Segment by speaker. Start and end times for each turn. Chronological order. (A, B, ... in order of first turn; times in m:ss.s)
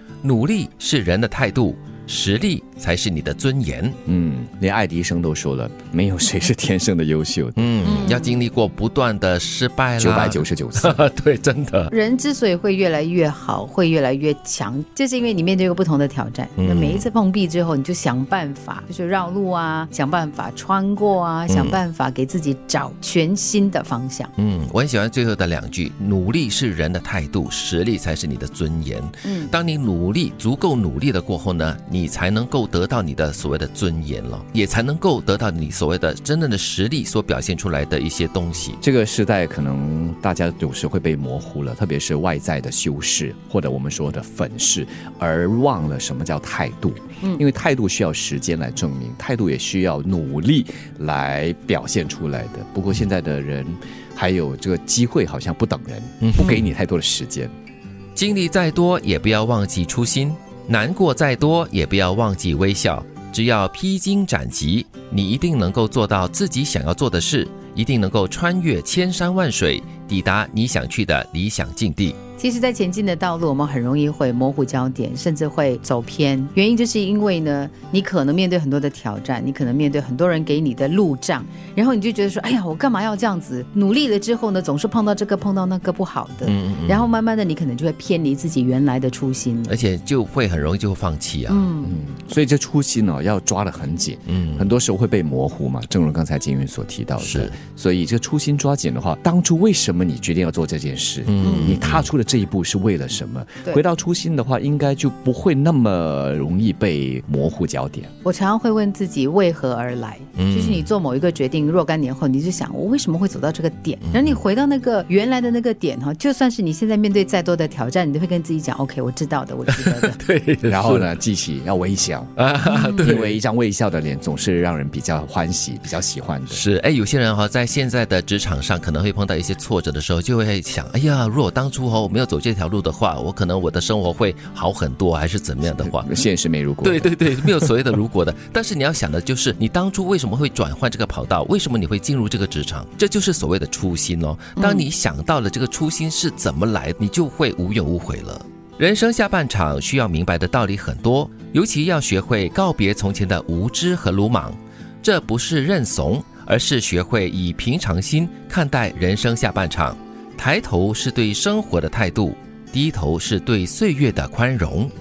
0:00.2-0:04.0 A
0:04.0-0:07.7 B
0:07.6-0:11.9 A
0:07.8-0:08.4 C
0:10.0-0:11.0 B
0:11.9-0:24.3 C
0:16.6-0:17.0 A
0:21.5-0:21.8 A
0:24.4-0:38.8 A
0:29.2-0:29.5 C
0:38.8-0:57.5 B
0:56.2-0:56.6 A
0:58.2-1:12.2 A
1:12.4-1:29.7 C
1:26.4-1:27.1 A
1:29.7-1:31.7 A
1:31.5-1:32.0 C
1:31.8-1:48.1 B
1:34.3-1:34.7 A
1:37.2-1:37.6 A
1:41.2-1:42.1 A
1:41.4-1:41.8 C
1:48.2-2:00.2 C
1:50.4-1:50.9 A
1:54.0-1:54.4 A
1:59.7-2:01.1 A
2:00.7-2:06.6 B
2:02.4-2:03.4 A
2:02.6-2:03.1 C
2:06.5-2:16.1 A
2:15.6-2:17.7 B
2:16.8-2:44.9 A
2:24.6-2:24.9 C